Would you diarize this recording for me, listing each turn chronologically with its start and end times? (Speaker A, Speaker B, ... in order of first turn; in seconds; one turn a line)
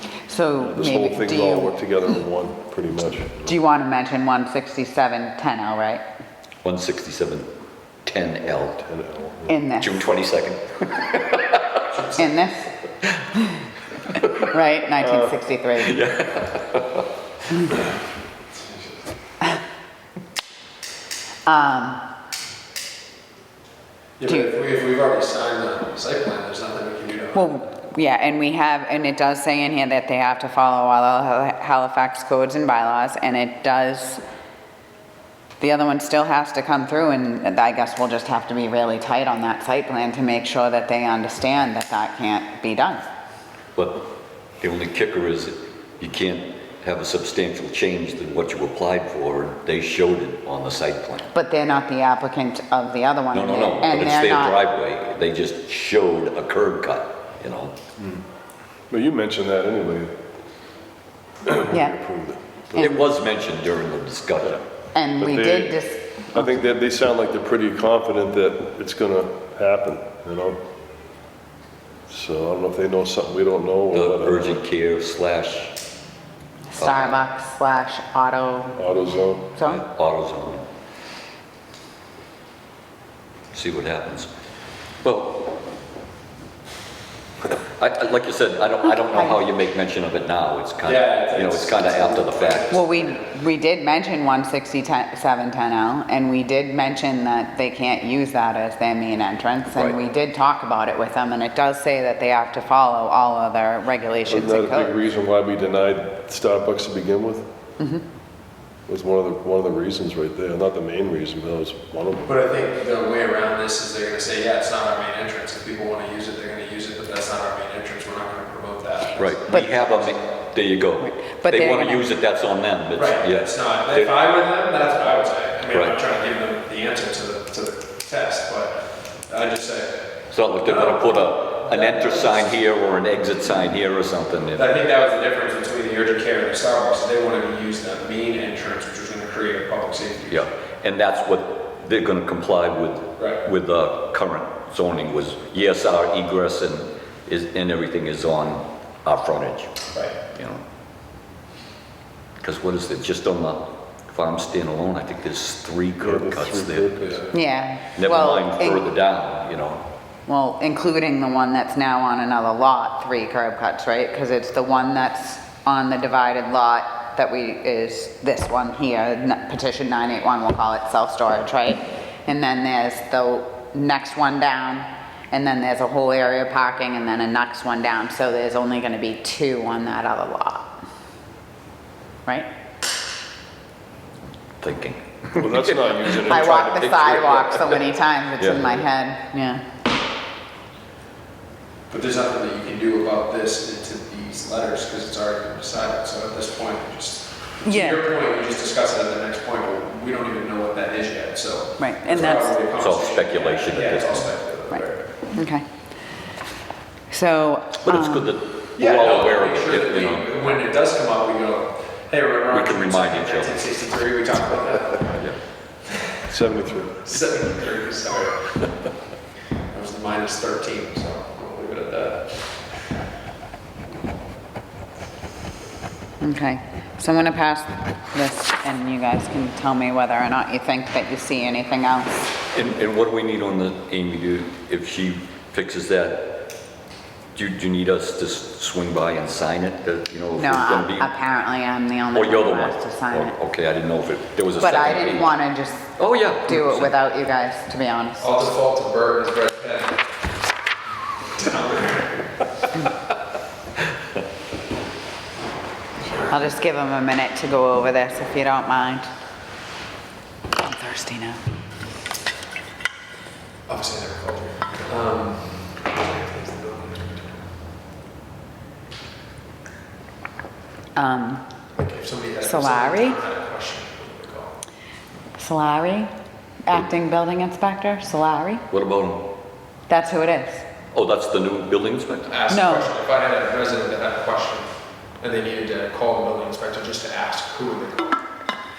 Speaker A: 0.3-1.8
Speaker B: 0.6-3.5
Speaker A: 3.5-6.0
Speaker C: 6.6-7.5
Speaker C: 8.0-8.8
Speaker B: 8.8-9.6
Speaker A: 9.5-10.1
Speaker C: 9.8-11.8
Speaker D: 11.9-12.3
Speaker A: 12.2-12.7
Speaker A: 13.3-13.6
Speaker A: 14.2-16.0
Speaker C: 15.8-17.1
Speaker A: 21.5-22.1
Speaker D: 24.2-27.5
Speaker A: 24.3-24.6
Speaker A: 27.4-34.2
Speaker A: 35.6-43.0
Speaker C: 43.8-44.0
Speaker C: 44.6-51.3
Speaker A: 51.3-54.6
Speaker C: 53.3-57.8
Speaker B: 58.9-60.1
Speaker B: 61.4-63.0
Speaker A: 61.7-62.0
Speaker C: 62.8-64.6
Speaker A: 65.0-66.5
Speaker B: 65.2-65.8
Speaker B: 66.3-70.6
Speaker B: 72.1-74.5
Speaker C: 73.9-75.8
Speaker A: 76.7-78.9
Speaker C: 76.8-77.2
Speaker B: 78.8-79.5
Speaker A: 79.5-79.8
Speaker C: 79.6-80.7
Speaker C: 83.5-84.3
Speaker C: 85.0-85.6
Speaker C: 87.8-92.8
Speaker D: 90.8-93.3
Speaker A: 92.7-104.9
Speaker B: 104.3-107.5
Speaker B: 108.9-112.3
Speaker D: 112.2-119.5
Speaker C: 119.2-124.1
Speaker A: 119.5-119.8
Speaker A: 121.0-122.0
Speaker D: 123.0-132.6
Speaker C: 125.7-126.0
Speaker C: 130.3-134.6
Speaker D: 134.5-140.5
Speaker C: 140.3-150.6
Speaker C: 152.4-157.2
Speaker B: 156.0-157.3
Speaker A: 157.3-158.9
Speaker C: 158.0-159.8
Speaker A: 160.3-180.8
Speaker C: 184.6-187.8
Speaker B: 185.3-187.8
Speaker A: 186.1-189.6
Speaker C: 188.4-188.9
Speaker D: 191.9-205.2
Speaker A: 197.6-198.1
Speaker A: 201.8-202.6
Speaker C: 202.1-204.2
Speaker A: 204.7-205.6
Speaker A: 207.1-208.3
Speaker C: 207.8-210.3
Speaker D: 208.8-215.2
Speaker C: 212.5-213.6
Speaker C: 215.1-215.4
Speaker B: 216.3-217.1
Speaker D: 217.1-218.7
Speaker D: 219.7-222.7
Speaker A: 226.2-232.2
Speaker C: 232.5-236.5
Speaker C: 237.3-241.1
Speaker A: 240.4-243.4
Speaker C: 242.1-245.4
Speaker A: 244.6-248.3
Speaker C: 246.0-246.9
Speaker D: 248.2-250.1
Speaker D: 251.3-252.3
Speaker D: 256.0-256.4
Speaker A: 256.3-259.1
Speaker A: 260.6-261.4
Speaker D: 263.7-267.3
Speaker A: 271.0-271.4
Speaker D: 271.8-274.5
Speaker A: 272.4-273.2
Speaker A: 275.4-276.1
Speaker A: 276.7-278.6
Speaker C: 278.7-279.3
Speaker A: 279.9-280.6
Speaker C: 280.9-282.3
Speaker D: 282.3-288.2
Speaker A: 282.5-282.9